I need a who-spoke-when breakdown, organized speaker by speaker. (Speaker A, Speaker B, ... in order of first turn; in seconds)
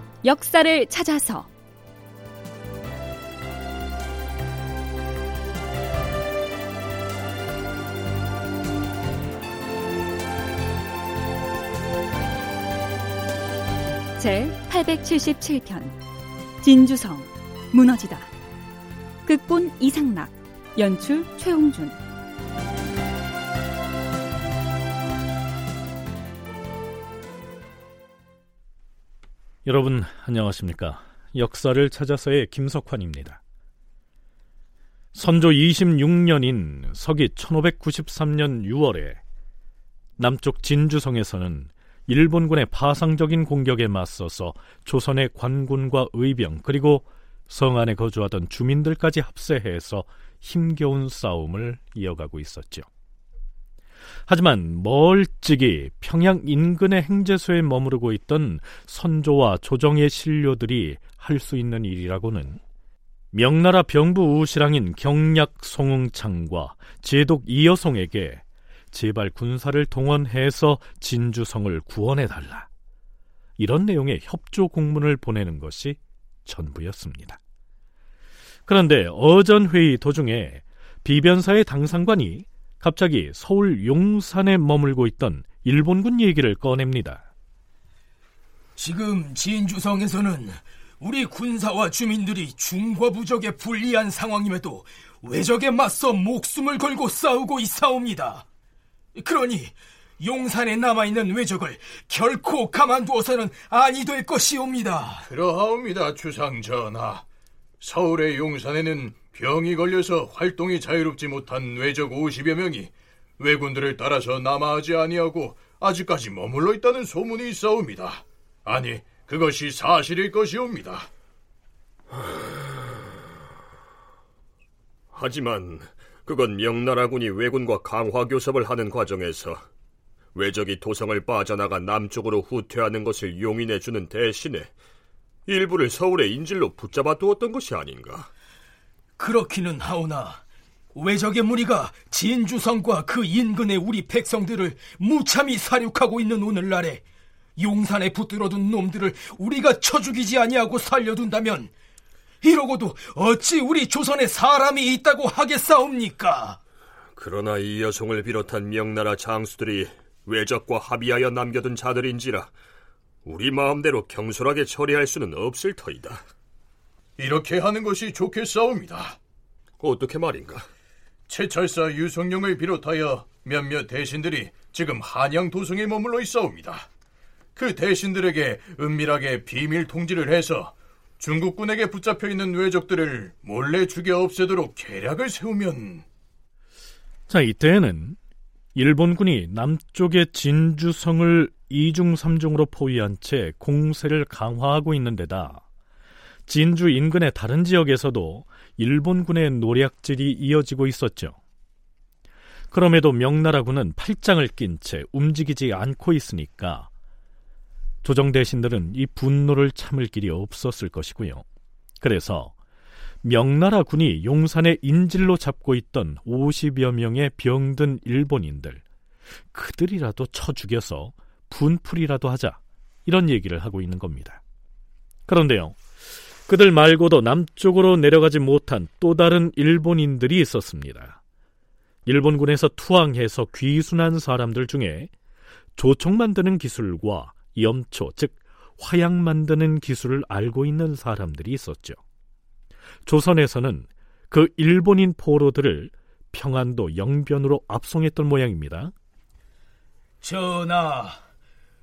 Speaker A: 0.2-1.5, 14.2-16.0, 16.6-18.3, 19.2-22.0
Speaker B: 29.6-33.4, 35.1-39.2, 40.2-52.9, 54.3-62.6, 63.3-72.7, 73.6-77.4, 78.7-87.2, 187.3-188.2, 188.8-195.7, 196.5-201.4, 202.7-206.9, 208.0-211.4, 212.0-212.5, 213.2-218.8, 219.5-224.4, 225.3-225.8, 226.5-231.2, 232.1-235.1, 235.8-242.0, 243.1-248.9
Speaker C: 88.8-98.4, 99.2-105.3, 139.2-140.4, 140.9-147.0, 147.6-151.7, 152.4-156.6, 250.2-251.2
Speaker D: 105.3-107.2, 107.8-121.1, 167.2-169.2, 171.3-176.9, 177.6-186.0
Speaker E: 125.1-129.7, 130.3-134.7, 135.5-138.3, 157.2-162.5, 163.2-166.2, 169.8-170.7